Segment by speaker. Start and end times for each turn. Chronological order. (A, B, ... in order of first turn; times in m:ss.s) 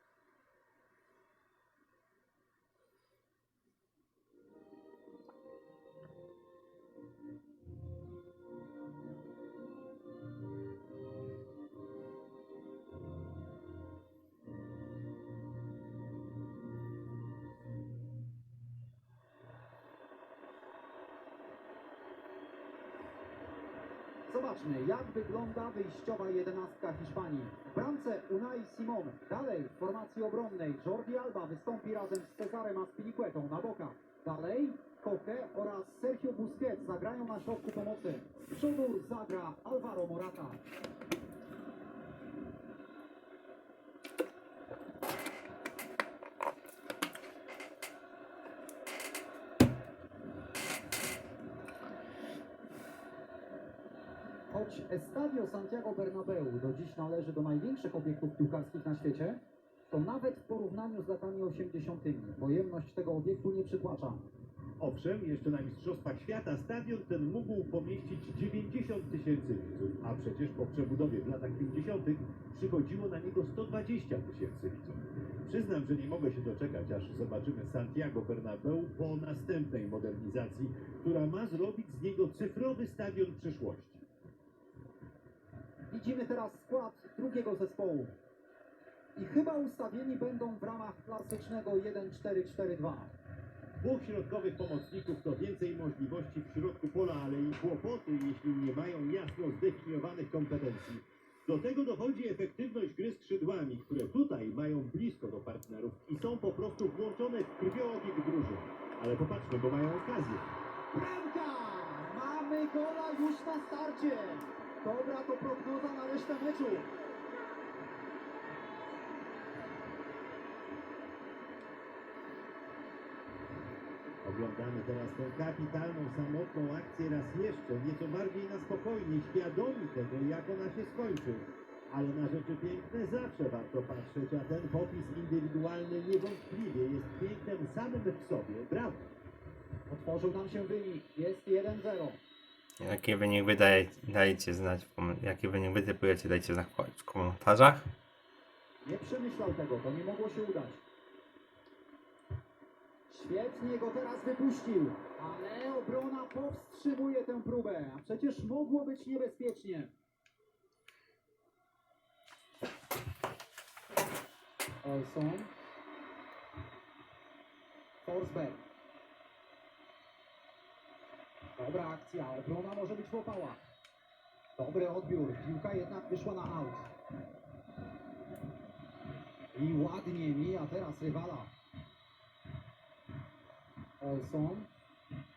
0:24.3-0:40.6 A
0:54.5-0:59.4 A
0:59.9-1:04.2 A
1:04.8-1:24.0 B
1:25.9-1:28.2 A
1:29.2-1:33.1 A
1:33.8-1:50.5 B
1:50.9-1:56.9 A
2:04.2-2:19.1 B
2:19.9-2:22.2 A
2:22.8-2:27.9 C
2:28.8-2:30.8 A
2:33.1-2:39.9 A
2:44.8-2:45.5 A
2:48.0-2:48.6 A
2:51.6-2:53.6 A
2:54.6-2:56.9 A
2:59.6-3:01.5 A
3:04.0-3:04.7 A